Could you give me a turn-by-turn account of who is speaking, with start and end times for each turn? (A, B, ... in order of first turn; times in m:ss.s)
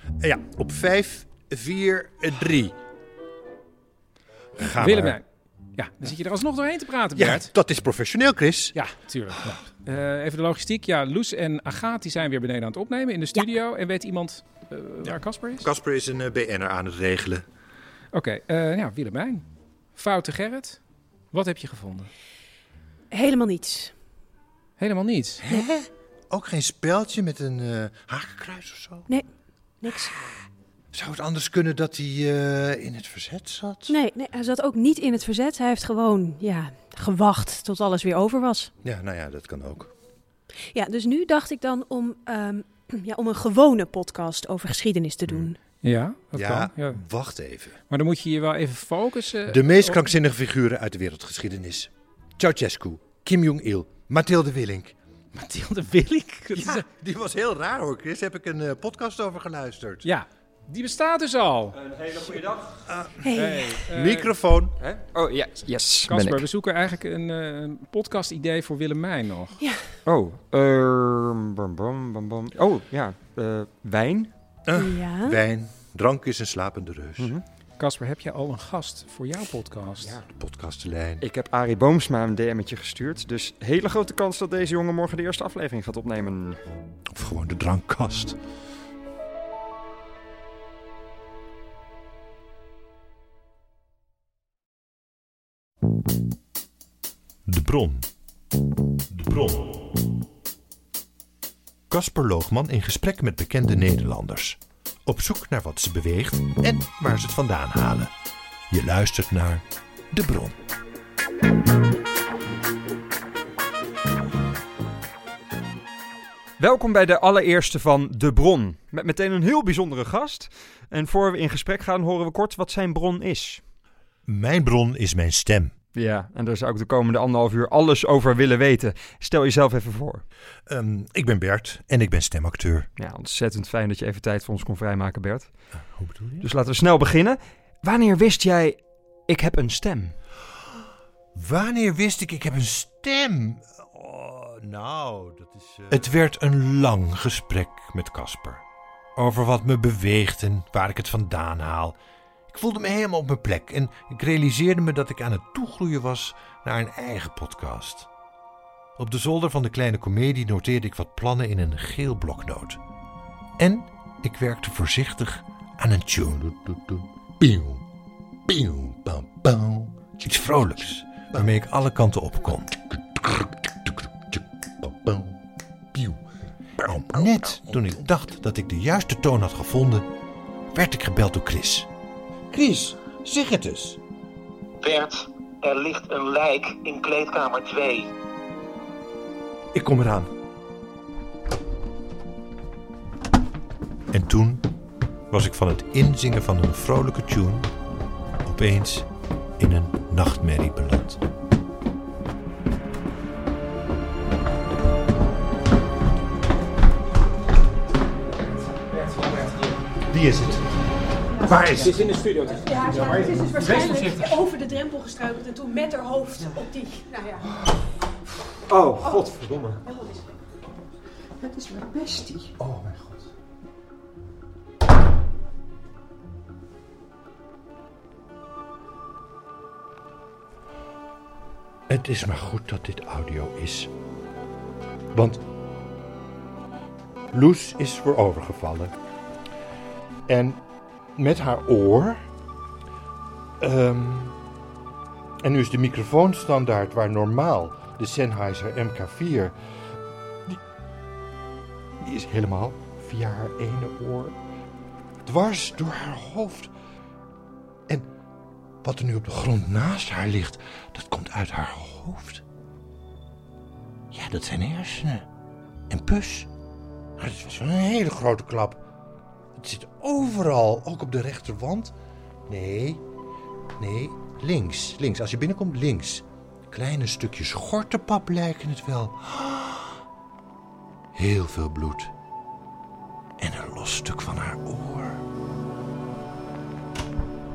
0:00.2-0:02.8 A
0:04.6-0:05.2 A
0:04.8-0:05.2 B
0:05.8-0:07.5 B
0:07.2-0:08.8 A
0:08.7-0:15.7 B
0:15.6-0:17.4 A
0:18.1-0:19.4 B
0:20.0-0:20.8 B
0:21.3-0:22.1 B
0:23.1-0:23.9 C
0:24.8-0:25.4 B
0:25.4-0:29.1 A
0:29.8-0:30.2 C
0:30.9-0:34.0 A
0:33.9-0:38.7 C
0:38.8-0:39.9 A
0:40.7-0:45.6 C
0:45.3-0:45.5 A
0:45.8-0:47.0 B
0:46.3-0:47.8 A
0:47.9-0:50.0 B
0:49.5-0:55.0 A
0:55.4-0:56.8 B
0:56.5-1:00.1 A
1:00.0-1:01.8 B
1:01.7-1:02.8 D
1:02.9-1:04.7 A
1:03.2-1:03.8 C
1:03.3-1:04.4 B
1:04.8-1:06.5 D
1:06.0-1:09.6 B
1:09.6-1:09.8 C
1:10.0-1:14.3 D
1:14.7-1:17.4 A
1:14.7-1:15.4 C
1:17.8-1:20.2 B
1:20.0-1:20.2 D
1:20.3-1:21.3 A
1:21.2-1:26.6 D
1:27.1-1:28.4 A
1:37.5-1:38.1 A
1:39.1-1:39.8 A
1:41.9-1:48.1 A
1:48.7-1:50.5 A
1:56.6-2:03.6 D
2:04.3-2:05.7 A
2:05.9-2:10.2 D
2:10.7-2:12.9 A
2:13.0-2:15.5 D
2:15.8-2:16.5 A
2:16.4-2:20.2 D
2:21.4-2:28.6 A
2:29.2-2:32.0 A
2:32.5-2:38.1 A
2:39.0-2:42.8 A
2:43.6-2:47.8 A
2:48.5-2:55.4 A
2:55.9-2:56.2 A
2:56.8-3:00.1 A
3:00.7-3:01.9 A
3:02.5-3:04.0 A
3:04.8-3:08.0 E
3:09.7-3:10.3 A
3:14.1-3:14.7 A
3:15.3-3:17.7 A
3:18.5-3:19.1 A
3:19.6-3:21.2 A
3:28.9-3:29.8 B
3:30.1-3:30.6 A
3:31.4-3:32.0 A
3:31.5-3:34.4 B
3:32.6-3:37.4 C
3:38.7-3:39.8 D
3:39.8-3:40.2 C
3:41.8-3:43.2 D
3:51.9-3:53.9 A
3:55.1-3:55.4 A
3:57.3-3:58.9 A
4:00.3-4:00.6 A
4:01.2-4:02.2 A
4:03.6-4:04.4 A
4:05.4-4:09.6 A
4:12.0-4:14.4 A
4:15.2-4:16.7 A
4:18.8-4:22.4 A
4:24.1-4:25.3 A
4:25.9-4:26.5 A
4:27.2-4:28.8 A
4:29.6-4:31.9 A
4:32.5-4:33.0 A
4:33.8-4:40.0 A
4:41.2-4:42.1 A
4:43.4-4:45.2 A